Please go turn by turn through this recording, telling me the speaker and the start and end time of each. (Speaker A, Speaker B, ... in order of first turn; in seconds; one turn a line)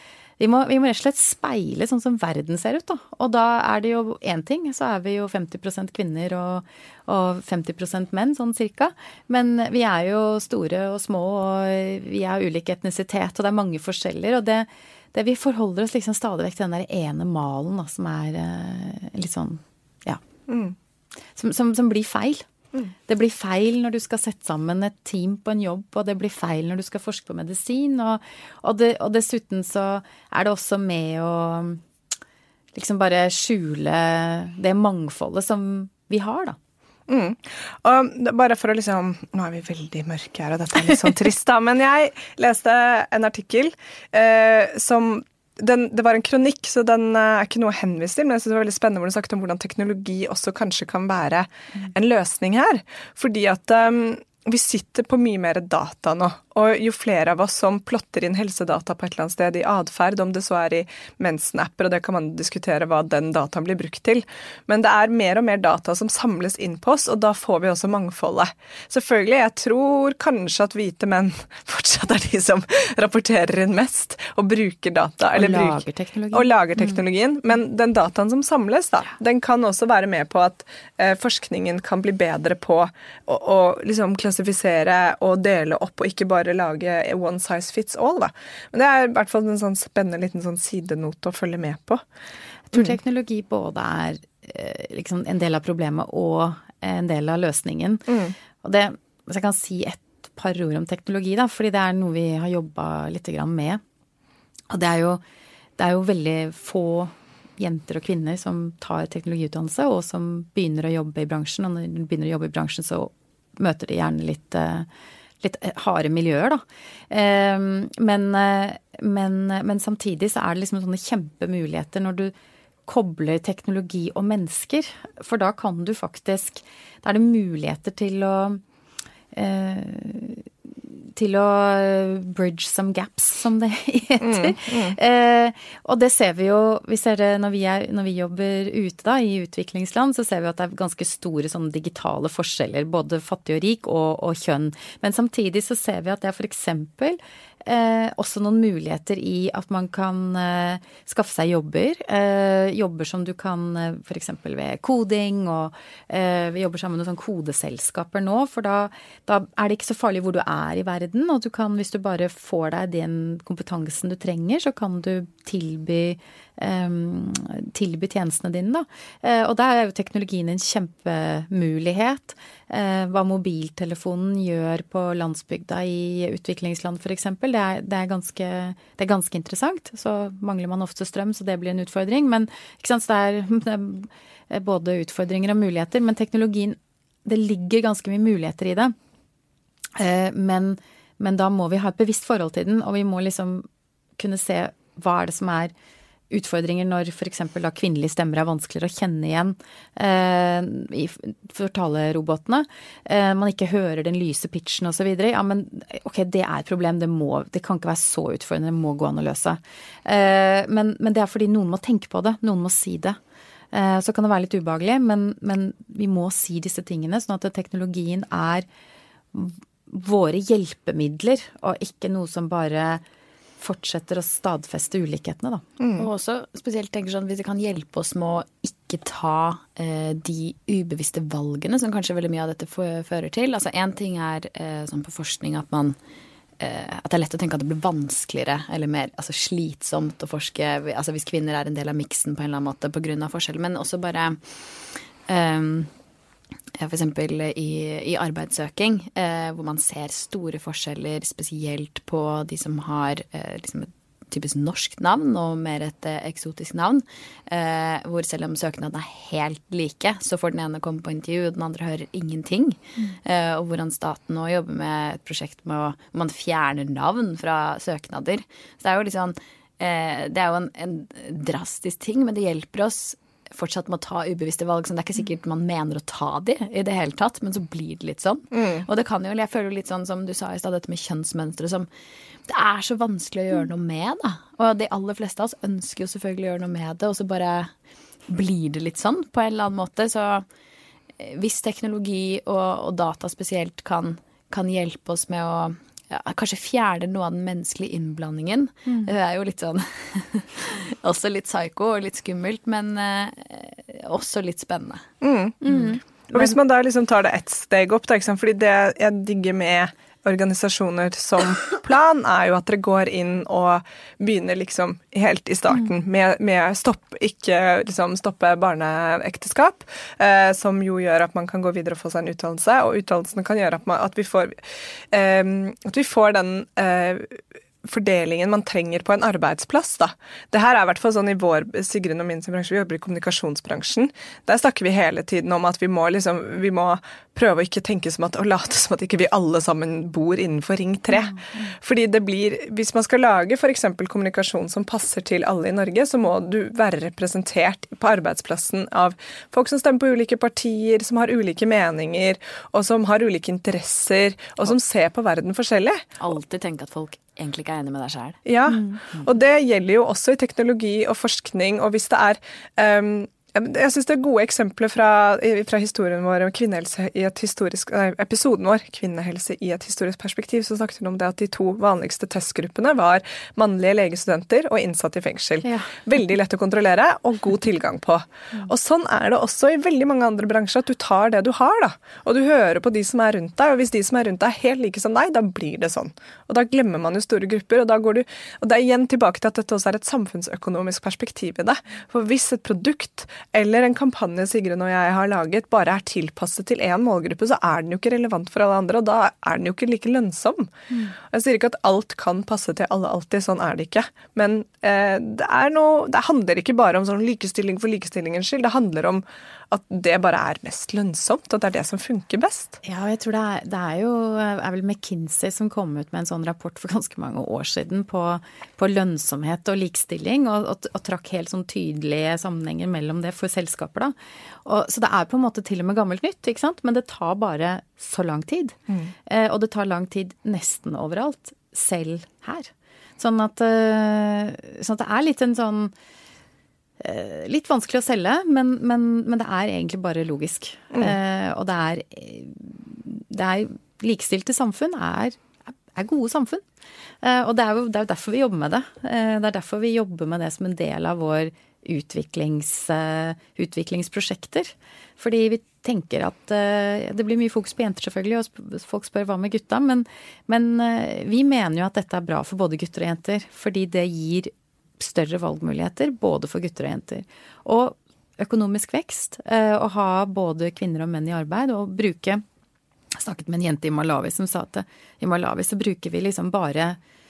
Speaker A: 0.4-20.2
Speaker B: 20.5-20.8
Speaker A: 21.4-22.5
Speaker A: 23.1-31.8
Speaker A: 32.7-36.6
Speaker B: 37.1-92.0
Speaker A: 75.3-77.0
Speaker A: 92.7-98.1
Speaker B: 98.1-98.3
Speaker A: 98.6-103.8
Speaker A: 104.7-105.2
Speaker A: 105.8-114.9
Speaker A: 115.4-122.3
Speaker A: 122.9-128.6
Speaker A: 129.3-188.9
Speaker B: 134.2-135.0
Speaker A: 189.9-193.7
Speaker A: 194.2-195.7
Speaker A: 196.3-213.2
Speaker A: 213.7-218.7
Speaker A: 219.3-223.0
Speaker A: 223.6-225.6
Speaker B: 225.8-226.1
Speaker C: 226.0-236.0
Speaker C: 236.6-245.9
Speaker C: 246.8-281.9
Speaker B: 278.5-278.9
Speaker C: 282.5-287.7
Speaker C: 288.3-290.5
Speaker C: 291.2-305.1
Speaker B: 305.2-305.7
Speaker A: 305.6-306.4
Speaker B: 306.2-324.6
Speaker B: 325.1-356.1
Speaker C: 356.2-358.4
Speaker B: 358.5-400.7
Speaker B: 401.3-412.8
Speaker A: 412.8-435.9
Speaker A: 437.0-446.6
Speaker A: 447.2-472.4
Speaker A: 473.2-477.0